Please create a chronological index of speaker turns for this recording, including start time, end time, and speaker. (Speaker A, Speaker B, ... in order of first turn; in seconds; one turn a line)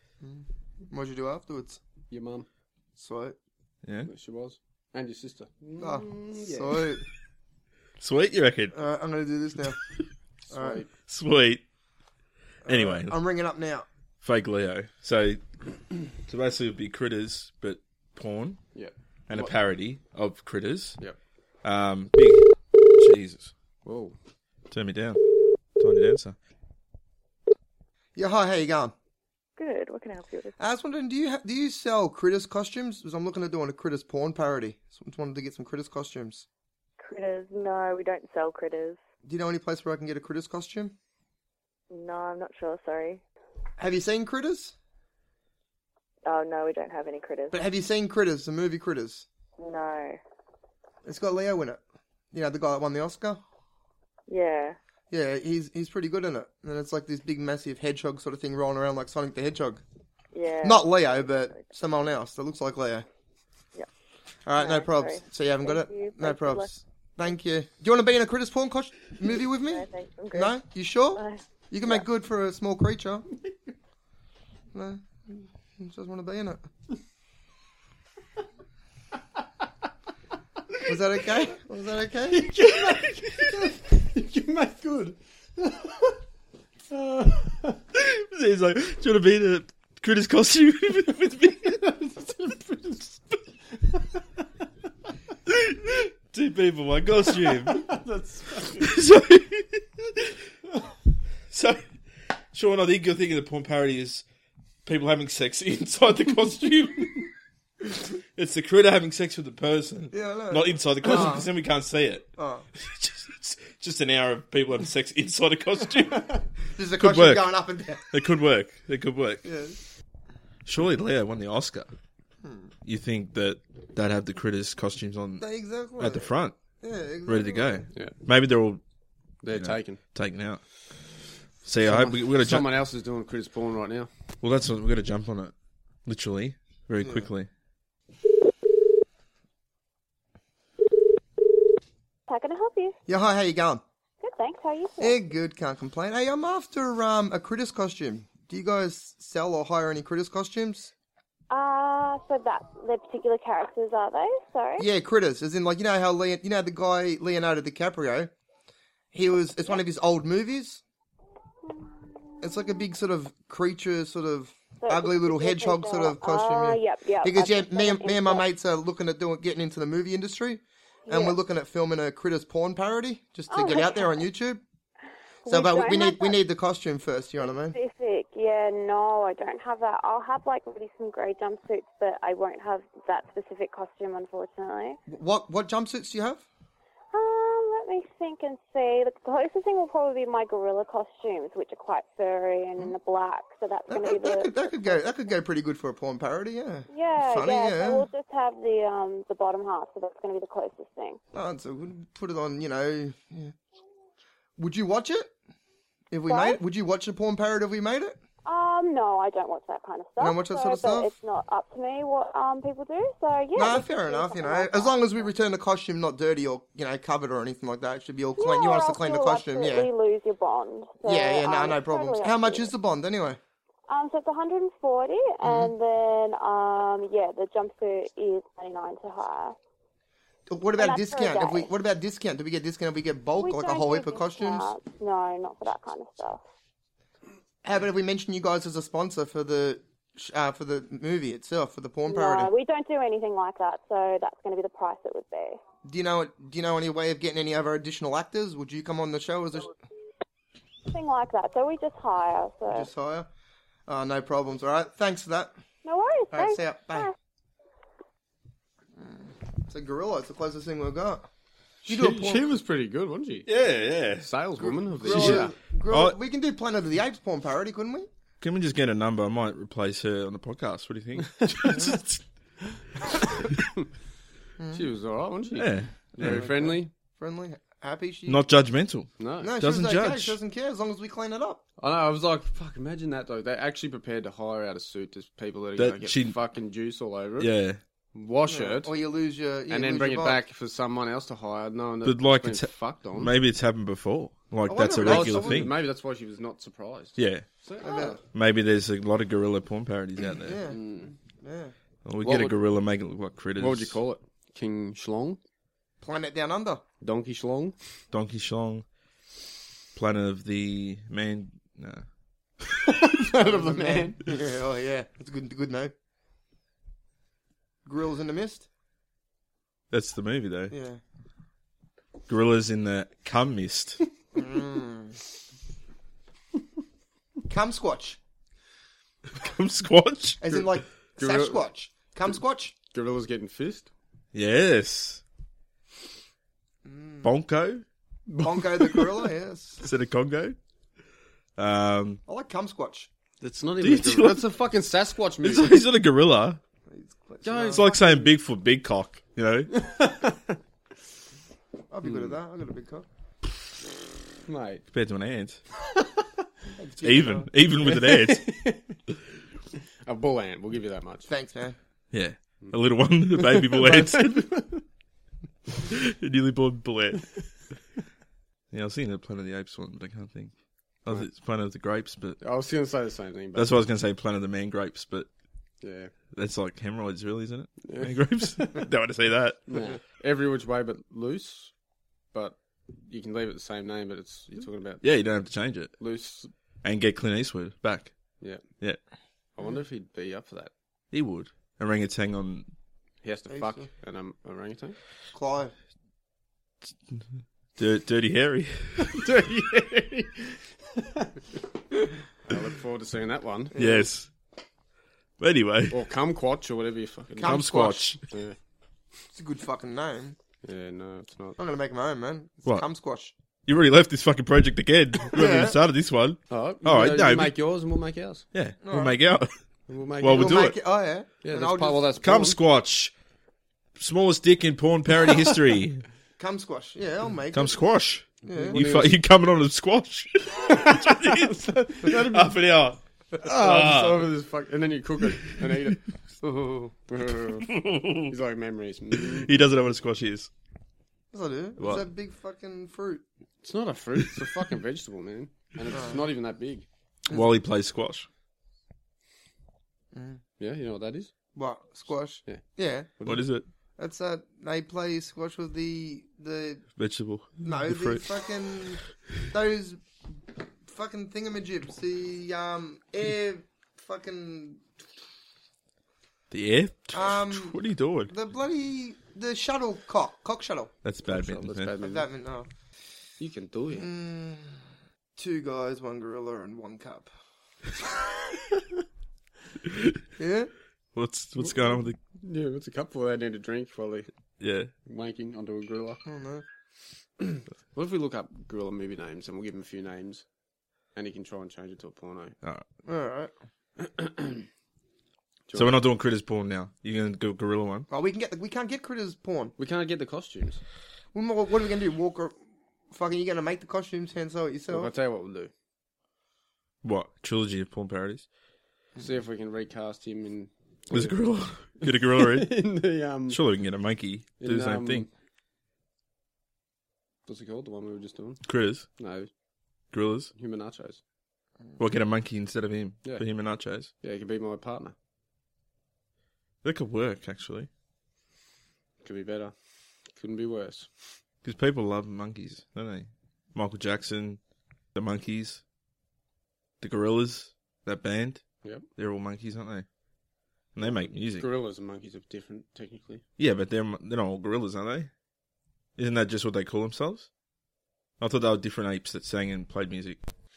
Speaker A: 0.2-1.8
Speaker B: 2.1-2.5
Speaker A: 3.0-3.4
Speaker C: 3.8-4.1
Speaker B: 4.0-6.8
Speaker A: 5.8-7.0
Speaker C: 8.0-8.8
Speaker A: 8.7-9.8
Speaker B: 10.5-10.9
Speaker A: 10.5-10.8
Speaker C: 11.1-11.6
Speaker A: 12.6-13.8
Speaker C: 12.7-13.1
Speaker C: 14.2-15.4
Speaker C: 16.3-18.6
Speaker B: 18.7-19.5
Speaker C: 19.3-21.0
Speaker C: 21.6-23.5
Speaker B: 23.8-24.1
Speaker C: 24.7-25.2
Speaker C: 25.8-26.4
Speaker A: 28.1-28.9
Speaker D: 29.6-30.6
Speaker A: 30.6-36.5
Speaker D: 37.0-39.0
Speaker A: 39.2-40.9
Speaker D: 41.9-43.2
Speaker A: 43.8-44.7
Speaker D: 46.2-47.6
Speaker A: 47.5-49.2
Speaker D: 49.6-50.2
Speaker A: 51.0-51.8
Speaker A: 52.3-53.4
Speaker D: 54.3-54.8
Speaker A: 55.1-59.8
Speaker D: 60.3-61.7
Speaker A: 60.6-63.0
Speaker A: 64.5-73.2
Speaker D: 64.5-66.8
Speaker D: 69.6-70.6
Speaker D: 71.1-72.0
Speaker A: 74.7-76.6
Speaker A: 80.8-82.5
Speaker B: 82.3-86.1
Speaker B: 86.9-87.8
Speaker C: 87.9-91.8
Speaker B: 91.6-93.2
Speaker C: 95.5-97.9
Speaker B: 97.3-98.9
Speaker C: 98.8-100.3
Speaker C: 101.5-101.8
Speaker C: 102.5-104.2
Speaker C: 104.8-107.3
Speaker C: 108.3-116.3
Speaker A: 110.1-111.5
Speaker A: 112.4-112.6
Speaker A: 116.8-118.0
Speaker C: 117.0-117.5
Speaker C: 118.1-119.4
Speaker A: 119.4-119.8
Speaker C: 120.7-121.9
Speaker A: 122.4-122.7
Speaker C: 122.8-125.5
Speaker A: 125.4-126.3
Speaker C: 126.0-126.5
Speaker A: 126.8-127.9
Speaker C: 127.2-128.8
Speaker B: 129.4-130.0
Speaker C: 129.5-130.6
Speaker C: 131.6-132.7
Speaker B: 131.8-134.1
Speaker C: 134.4-135.5
Speaker C: 136.1-137.5
Speaker A: 137.0-137.3
Speaker E: 142.3-142.9
Speaker A: 143.1-143.8
Speaker E: 144.2-145.2
Speaker A: 145.0-150.9
Speaker E: 151.5-154.9
Speaker A: 154.8-158.3
Speaker A: 159.1-160.8
Speaker A: 162.4-174.6
Speaker E: 164.8-168.4
Speaker E: 171.1-171.4
Speaker E: 173.5-174.3
Speaker E: 175.4-176.4
Speaker A: 175.5-177.8
Speaker E: 177.4-185.0
Speaker A: 185.1-186.4
Speaker E: 187.1-195.3
Speaker A: 193.9-198.1
Speaker E: 196.9-201.2
Speaker A: 201.3-203.5
Speaker A: 204.6-205.3
Speaker A: 206.1-208.2
Speaker E: 206.3-206.6
Speaker E: 208.4-215.3
Speaker A: 210.2-211.1
Speaker A: 213.6-219.9
Speaker E: 218.4-222.7
Speaker A: 221.0-223.4
Speaker E: 223.9-229.6
Speaker A: 225.4-225.7
Speaker A: 230.5-234.7
Speaker E: 230.8-231.7
Speaker E: 233.4-236.4
Speaker A: 237.6-242.5
Speaker E: 242.1-245.6
Speaker A: 245.8-249.7
Speaker E: 250.9-252.9
Speaker A: 252.7-253.3
Speaker A: 253.9-255.5
Speaker E: 255.8-257.1
Speaker A: 256.3-257.1
Speaker A: 259.0-261.3
Speaker A: 261.8-262.4
Speaker B: 261.9-263.5
Speaker C: 263.5-264.3
Speaker B: 264.2-265.5
Speaker A: 264.6-268.1
Speaker C: 265.0-266.1
Speaker C: 268.4-272.2
Speaker B: 271.4-271.8
Speaker A: 274.6-274.8
Speaker B: 274.7-276.9
Speaker C: 275.6-276.4
Speaker A: 276.2-278.5
Speaker C: 278.3-280.4
Speaker B: 279.2-279.5
Speaker A: 279.4-281.6
Speaker B: 281.8-287.5
Speaker C: 285.8-286.3
Speaker C: 287.4-287.8
Speaker B: 288.1-288.9
Speaker A: 288.5-290.4
Speaker B: 289.7-293.3
Speaker C: 292.0-295.8
Speaker A: 294.7-295.7
Speaker B: 295.0-298.2
Speaker C: 297.2-297.4
Speaker A: 297.8-298.2
Speaker C: 298.3-300.6
Speaker A: 300.4-300.8
Speaker B: 300.7-301.1
Speaker A: 301.4-301.7
Speaker C: 302.0-304.0
Speaker B: 302.2-302.6
Speaker B: 303.6-305.4
Speaker A: 306.0-306.8
Speaker B: 307.0-307.7
Speaker C: 308.1-308.8
Speaker C: 309.9-312.0
Speaker B: 312.8-314.3
Speaker A: 313.4-315.9
Speaker A: 317.9-318.7
Speaker C: 319.9-320.7
Speaker A: 320.7-321.0
Speaker C: 322.3-324.0
Speaker A: 324.3-325.2
Speaker A: 327.5-328.2
Speaker C: 329.3-330.4
Speaker A: 330.4-332.7
Speaker B: 331.2-331.6
Speaker B: 332.9-333.9
Speaker C: 334.3-335.2
Speaker A: 336.8-337.3
Speaker C: 337.2-337.8
Speaker B: 338.3-339.1
Speaker A: 338.4-339.8
Speaker C: 339.8-340.6
Speaker C: 341.6-342.2
Speaker A: 342.3-343.1
Speaker B: 343.4-345.8
Speaker C: 343.8-344.4
Speaker C: 345.4-346.6
Speaker A: 346.9-348.3
Speaker B: 347.4-347.9
Speaker C: 347.7-349.9
Speaker B: 349.7-350.5
Speaker A: 351.9-353.1
Speaker B: 354.5-354.8
Speaker C: 354.9-355.6
Speaker A: 356.8-357.5
Speaker C: 357.0-358.5
Speaker B: 357.8-358.9
Speaker B: 360.1-361.3
Speaker A: 361.3-361.8
Speaker C: 362.1-364.5
Speaker B: 363.4-364.8
Speaker C: 365.8-367.3
Speaker C: 368.7-370.5
Speaker C: 371.0-372.4
Speaker B: 372.4-373.8
Speaker C: 373.5-375.3
Speaker B: 375.8-376.1
Speaker C: 376.3-379.6
Speaker B: 377.8-378.9
Speaker B: 379.7-381.7
Speaker B: 382.3-385.0
Speaker C: 385.0-385.9
Speaker B: 386.0-386.5
Speaker C: 386.8-388.1
Speaker B: 389.6-390.7
Speaker C: 391.1-392.7
Speaker B: 393.2-395.0
Speaker A: 393.5-393.9
Speaker A: 395.3-395.7
Speaker C: 397.8-399.2
Speaker B: 399.0-401.3
Speaker B: 402.5-403.7
Speaker A: 403.7-404.1
Speaker C: 403.8-404.3
Speaker C: 405.4-405.9
Speaker B: 405.9-407.6
Speaker A: 407.4-408.1
Speaker C: 407.4-408.2
Speaker B: 408.3-408.6
Speaker A: 409.3-410.4
Speaker B: 410.6-411.6
Speaker A: 411.6-413.3
Speaker C: 413.7-417.5
Speaker A: 415.3-415.8
Speaker B: 416.5-418.4
Speaker C: 418.5-419.5
Speaker A: 418.8-419.2
Speaker B: 419.9-420.6
Speaker C: 420.2-420.8
Speaker A: 420.3-422.0
Speaker B: 421.4-422.6
Speaker C: 422.2-423.1
Speaker C: 424.0-426.0
Speaker A: 426.4-427.8
Speaker C: 427.5-434.3
Speaker A: 428.4-428.8
Speaker B: 428.5-429.2
Speaker B: 430.7-432.5
Speaker B: 433.3-436.0
Speaker A: 436.4-436.9
Speaker B: 437.1-437.7
Speaker C: 437.6-438.3
Speaker B: 438.3-439.5
Speaker C: 439.1-440.5
Speaker A: 441.3-443.2
Speaker C: 441.8-442.0
Speaker B: 443.6-446.8
Speaker A: 445.9-446.2
Speaker C: 447.3-448.3
Speaker A: 450.1-450.4
Speaker B: 450.6-451.3
Speaker A: 451.5-453.1
Speaker C: 453.2-453.6
Speaker A: 454.0-456.9
Speaker C: 457.0-458.2
Speaker A: 457.6-460.0
Speaker A: 460.9-464.8
Speaker C: 466.5-468.3
Speaker A: 467.1-470.9
Speaker C: 471.0-471.9
Speaker B: 471.3-472.2
Speaker A: 472.0-472.7
Speaker B: 473.4-474.1
Speaker A: 473.9-477.3
Speaker C: 479.9-480.2
Speaker A: 480.4-480.7
Speaker C: 481.1-482.2
Speaker B: 481.6-484.3
Speaker C: 484.6-484.9
Speaker B: 485.1-486.2
Speaker A: 486.2-486.6
Speaker B: 487.4-490.4
Speaker B: 491.1-492.5
Speaker A: 493.1-493.5
Speaker B: 494.0-494.6
Speaker B: 495.7-496.0
Speaker C: 495.7-498.1
Speaker A: 498.1-499.7
Speaker B: 499.8-500.8
Speaker A: 501.3-502.5
Speaker A: 503.1-505.1
Speaker B: 504.9-505.7
Speaker C: 507.0-508.4
Speaker B: 509.2-511.4
Speaker C: 511.1-512.8
Speaker B: 512.0-513.6
Speaker C: 513.5-515.2
Speaker B: 514.6-515.3
Speaker B: 517.5-518.6
Speaker C: 518.6-519.1
Speaker B: 519.2-519.5
Speaker C: 520.1-520.5
Speaker B: 520.5-521.2
Speaker C: 522.0-524.1
Speaker B: 524.2-525.1
Speaker C: 526.8-527.9
Speaker B: 529.2-529.7
Speaker B: 530.4-531.1
Speaker C: 531.6-534.6
Speaker C: 535.1-535.8
Speaker C: 537.0-538.6
Speaker C: 539.1-540.0
Speaker C: 541.0-541.7
Speaker B: 541.0-543.4
Speaker C: 543.6-545.3
Speaker C: 546.2-547.5
Speaker C: 548.4-550.4